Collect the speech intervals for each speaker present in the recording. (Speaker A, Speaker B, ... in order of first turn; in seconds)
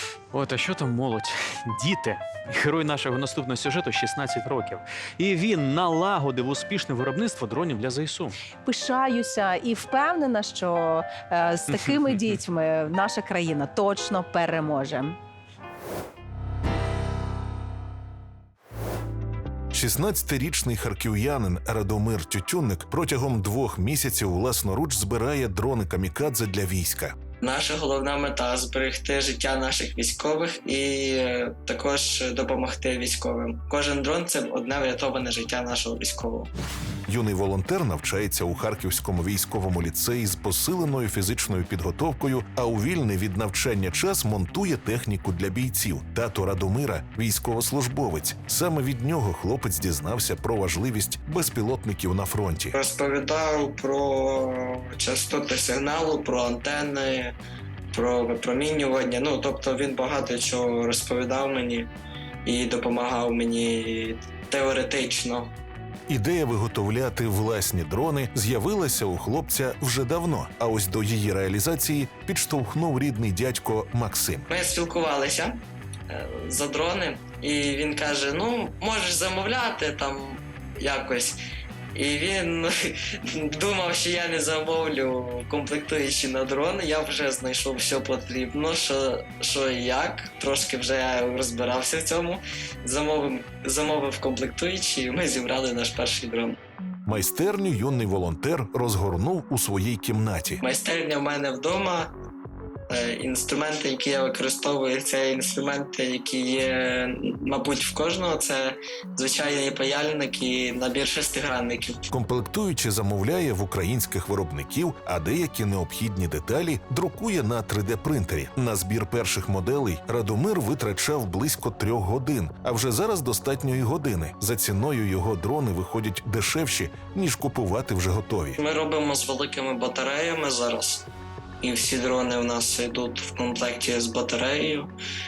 Speaker A: 0.3-8.3
Speaker B: 8.6-15.2
Speaker C: 19.7-27.1, 37.1-52.8, 66.1-74.5, 97.0-100.6, 112.1-128.6
Speaker D: 27.4-36.5, 52.7-57.3, 57.9-61.9, 62.4-65.5, 74.5-75.6, 76.1-81.4, 81.9-96.5, 100.6-102.1, 102.9-112.0, 128.6-131.1, 131.6-134.9